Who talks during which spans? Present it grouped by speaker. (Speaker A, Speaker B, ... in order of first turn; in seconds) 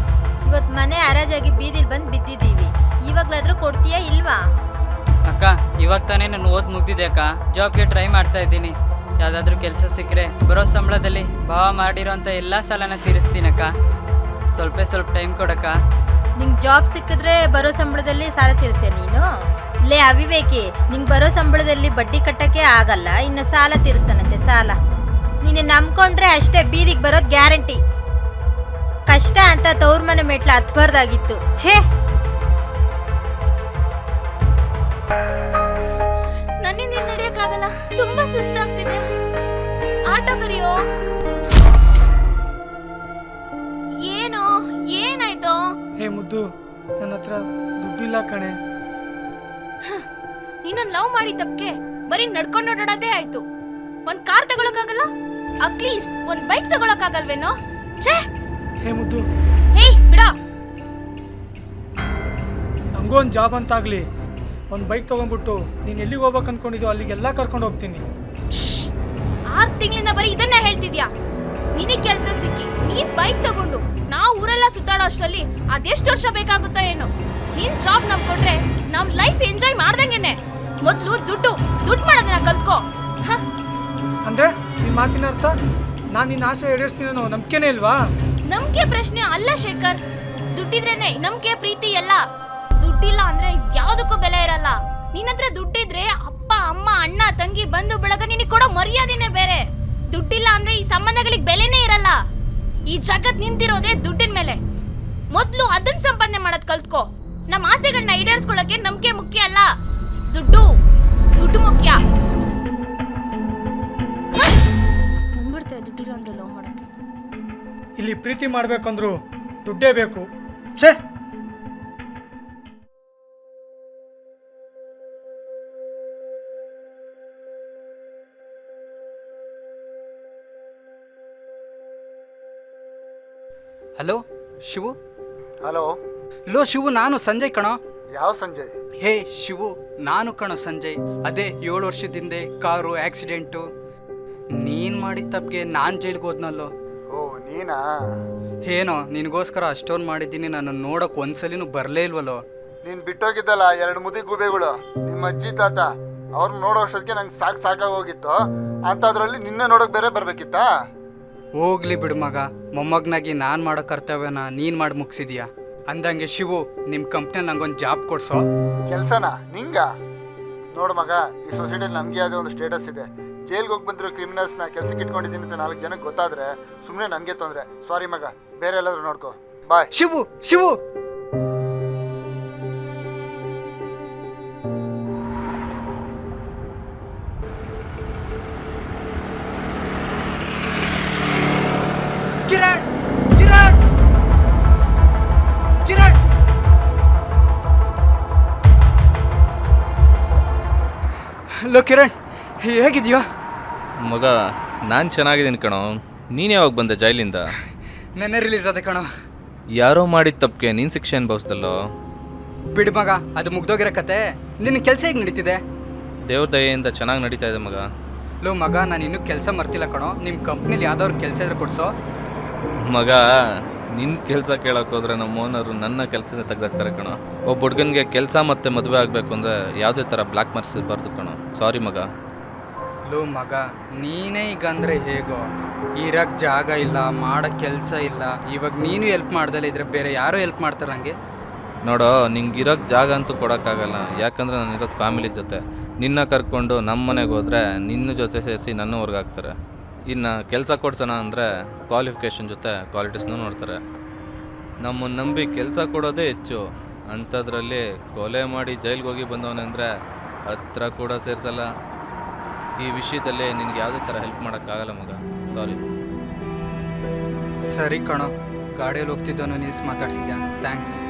Speaker A: 0.5-4.4, 16.4-19.2, 19.9-24.8, 25.4-27.8, 29.1-31.8
Speaker B: 5.3-13.7, 14.5-15.7
Speaker C: 36.6-39.0, 40.1-40.8, 44.0-45.7, 50.6-53.5, 54.1-55.1, 55.6-58.3, 59.8-60.4, 68.5-68.9, 69.5-71.1, 71.8-83.4, 88.5-90.0, 90.5-92.2, 92.8-99.6, 100.1-102.2, 102.9-104.6, 105.3-109.7, 110.3-110.7, 111.4-112.0, 115.4-116.8
Speaker D: 46.0-46.4, 47.0-48.6, 58.8-59.2, 63.0-64.0, 64.7-68.0, 84.3-85.5, 86.2-88.0, 118.0-119.1, 119.7-120.2
Speaker E: 135.7-135.9, 138.2-138.7, 147.1-147.8, 152.8-158.4, 158.9-160.7, 168.9-169.9, 170.7-179.9
Speaker F: 136.5-137.7, 139.0-143.6, 144.6-146.7, 148.7-152.4, 161.6-168.4, 180.0-180.8, 192.5-192.8, 193.4-193.8, 195.9-196.2, 201.7-202.1, 202.6-203.2, 208.2-209.0, 212.8-215.6, 218.4-221.9, 233.1-235.4, 236.0-241.1, 267.7-271.0
Speaker G: 204.0-204.3, 204.9-207.5, 209.7-211.8, 216.3-217.9, 222.8-232.1, 241.8-249.5, 250.1-253.8, 254.8-259.9, 260.5-261.7, 262.8-265.8